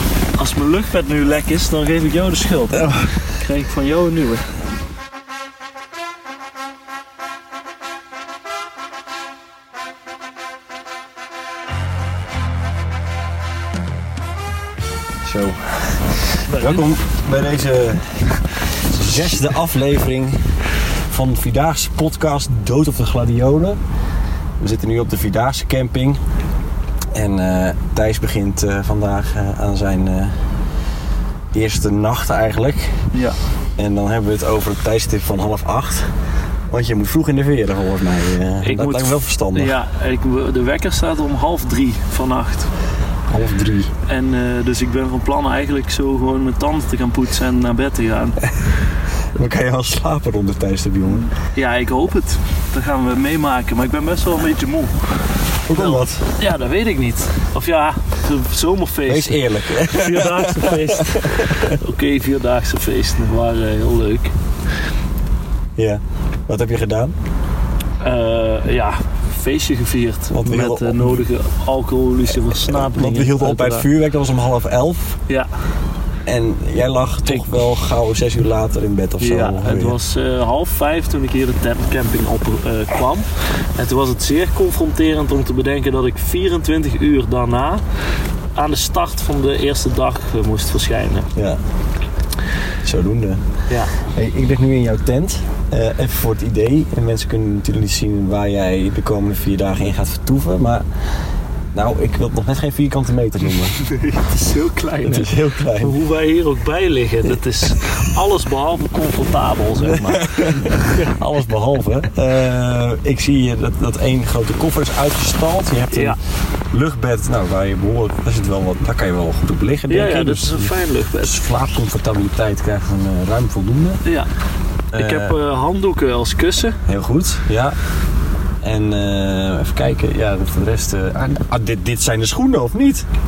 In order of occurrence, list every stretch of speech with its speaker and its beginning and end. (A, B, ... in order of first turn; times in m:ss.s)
0:00.4-0:04.5 A
0:02.7-0:03.1 B
0:15.2-0:20.6 B
0:16.5-0:16.9 A
0:21.1-0:23.8 B
0:24.6-0:26.2 B
0:27.1-0:30.3 B
0:31.5-0:33.0 B
0:33.8-0:36.1 B
0:36.7-0:39.8 B
0:38.6-0:42.7 A
0:43.3-0:43.9 B
0:44.0-0:48.6 A
0:49.4-0:51.3 B
0:51.4-1:04.3 A
0:55.7-0:56.2 B
0:59.1-1:01.7 B
1:05.8-1:07.1 B
1:08.0-1:13.9 A
1:10.3-1:11.3 B
1:12.3-1:15.2 B
1:16.3-1:20.0 B
1:19.2-1:27.8 A
1:28.6-1:31.3 A
1:31.4-1:31.6 B
1:32.8-1:33.4 B
1:33.7-1:33.9 A
1:34.0-1:40.9 B
1:41.7-1:43.8 B
1:43.8-1:51.1 A
1:45.0-1:46.0 B
1:49.8-1:56.2 B
1:55.9-1:56.2 A
1:56.7-2:04.0 B
1:59.9-2:01.4 A
2:04.0-2:04.3 A
2:04.9-2:05.4 B
2:04.9-2:06.8 A
2:06.9-2:07.8 B
2:08.6-2:13.0 B